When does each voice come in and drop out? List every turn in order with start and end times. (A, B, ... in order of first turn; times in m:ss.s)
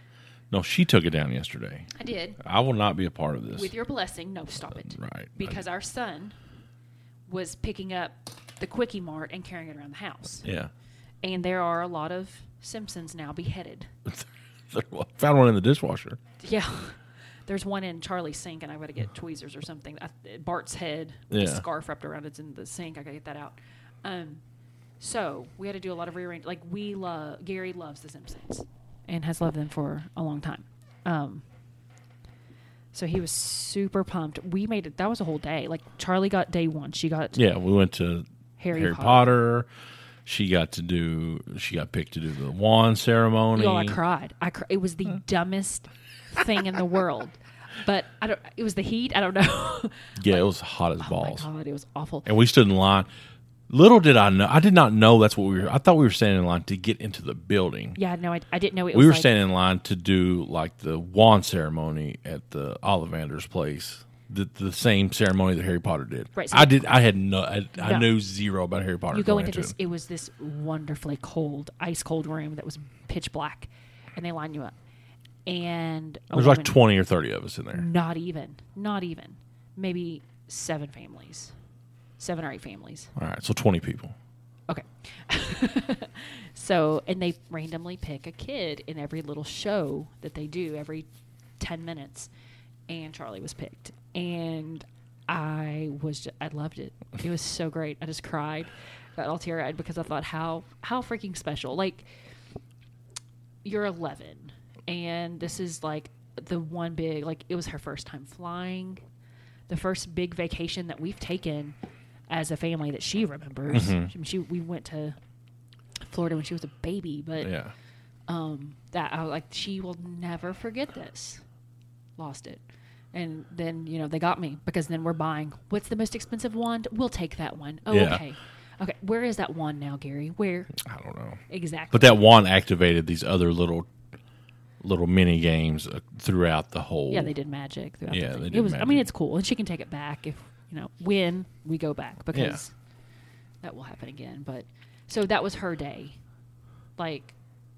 0:00.5-0:03.7 A
0:02.0-0:02.4 B
0:03.5-0:06.4 B
0:04.8-0:05.6 A
0:07.3-0:10.5 B
0:10.4-0:10.7 A
0:11.2-0:13.9 B
0:14.1-0:16.2 A
0:16.4-0:24.4 B
0:21.3-0:21.6 A
0:25.0-0:31.4 B
0:32.9-0:37.4 B
0:37.4-0:39.7 A
0:38.6-0:39.3 B
0:40.2-0:44.0 A
0:43.5-0:50.4 B
0:50.2-0:51.5 A
0:51.0-0:52.3 B
0:52.2-0:53.1 A
0:53.7-0:58.0 A
0:58.0-0:59.3 B
0:58.9-1:09.7 A
1:06.4-1:07.0 B
1:07.8-1:08.1 B
1:09.1-1:14.7 B
1:15.5-1:16.8 B
1:16.3-1:17.9 A
1:17.7-1:21.5 B
1:22.2-1:23.1 B
1:23.2-1:24.2 A
1:24.7-1:31.1 B
1:31.6-1:32.3 B
1:32.9-1:42.1 B
1:43.6-1:49.0 B
1:49.7-1:51.8 B
1:52.3-1:55.2 B
1:53.7-1:54.1 A
1:56.0-1:57.5 B
1:57.4-1:57.7 A
1:58.3-2:01.4 B
2:02.2-2:02.6 B
2:03.1-2:10.8 B
2:07.9-2:08.2 A
2:10.8-2:13.9 A
2:11.5-2:12.2 B
2:14.8-2:17.3 A
2:17.1-2:22.7 B
2:18.1-2:19.1 A
2:22.3-2:22.6 A
2:23.6-2:26.2 B
2:27.0-2:27.4 B